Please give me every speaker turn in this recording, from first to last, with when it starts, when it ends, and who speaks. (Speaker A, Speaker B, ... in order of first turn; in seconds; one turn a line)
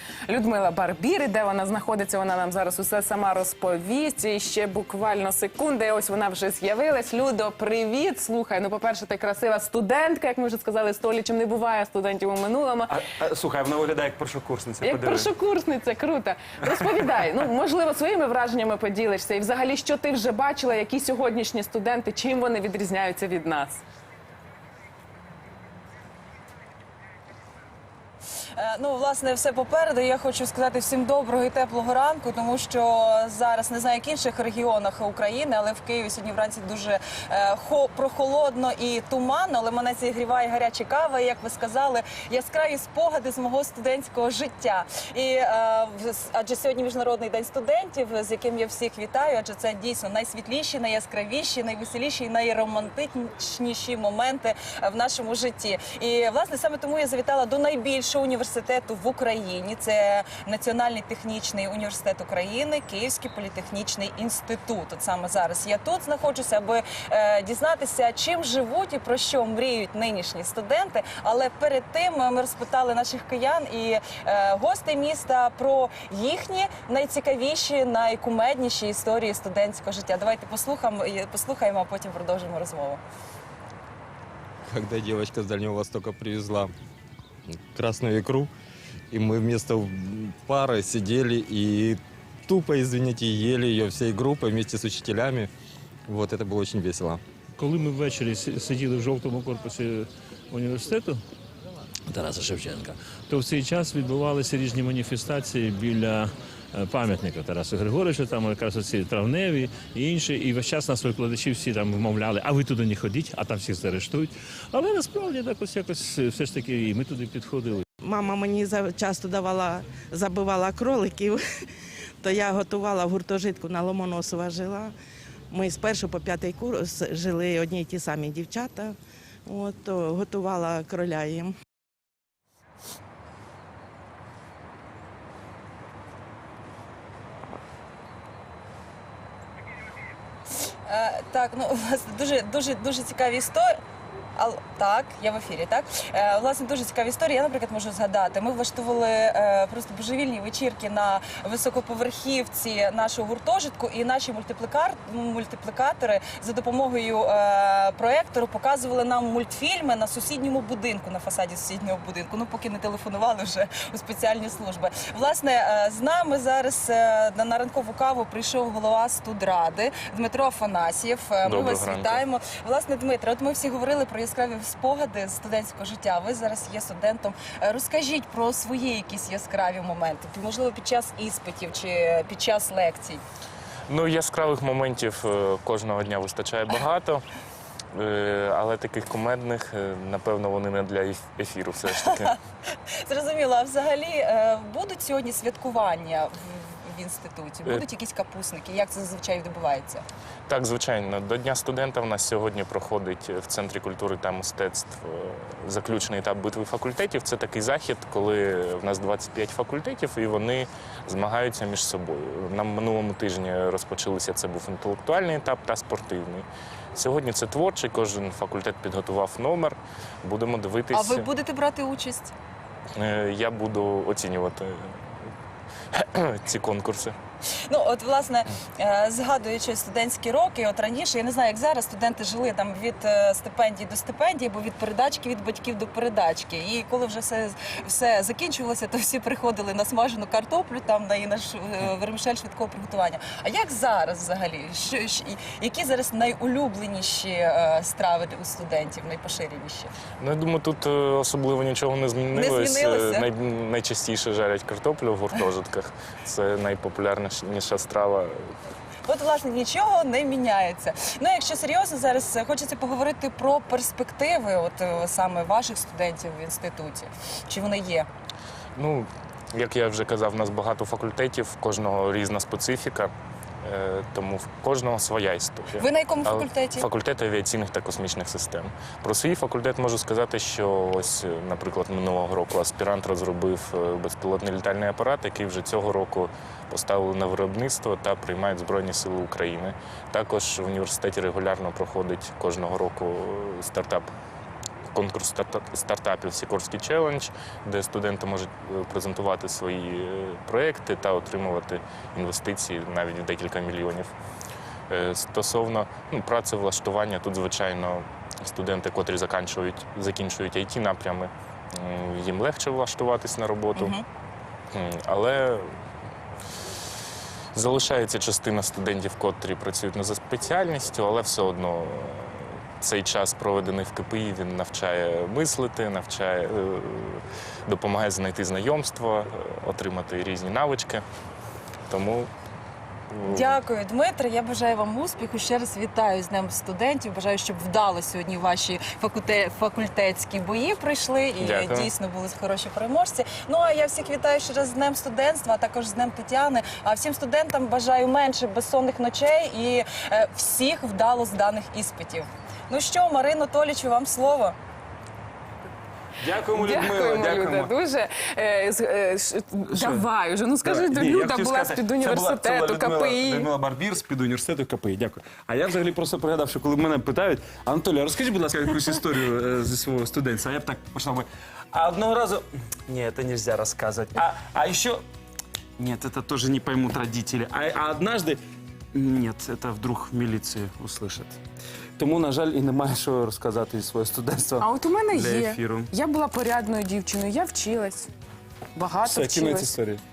Speaker A: 0.3-12.9
Speaker B: 12.9-15.3
Speaker A: 14.8-23.8
Speaker C: 28.6-83.0
Speaker D: 84.7-86.7
Speaker D: 87.5-88.5
Speaker D: 89.1-95.5
Speaker D: 96.1-97.2
Speaker E: 97.6-101.2
Speaker E: 102.1-117.8
Speaker F: 118.0-121.4
Speaker F: 122.2-124.9
Speaker F: 125.5-131.5
Speaker C: 140.9-143.7
Speaker C: 144.4-183.2
Speaker G: 171.5-172.2
Speaker G: 183.9-187.2
Speaker G: 187.9-192.3
Speaker C: 191.8-192.3
Speaker C: 193.1-200.1
Speaker G: 200.5-221.3
Speaker C: 220.9-222.3
Speaker G: 223.0-225.3
Speaker G: 225.9-227.2
Speaker C: 227.7-249.9
Speaker G: 250.2-258.5
Speaker C: 252.3-253.3
Speaker C: 259.1-268.1
Speaker G: 268.8-273.1
Speaker G: 273.6-294.1
Speaker C: 275.8-276.9
Speaker G: 294.8-304.1
Speaker G: 304.9-313.9
Speaker C: 313.8-314.0
Speaker G: 314.7-315.7
Speaker G: 317.5-331.0
Speaker G: 331.9-332.3
Speaker G: 333.1-333.6
Speaker C: 333.3-354.6
Speaker G: 341.4-341.9
Speaker B: 356.2-357.7
Speaker A: 356.5-363.5
Speaker B: 359.7-360.1
Speaker B: 360.6-375.0
Speaker B: 375.8-378.4
Speaker B: 378.9-381.4
Speaker B: 382.0-385.9
Speaker A: 384.6-388.1
Speaker A: 388.8-389.7
Speaker B: 389.0-390.0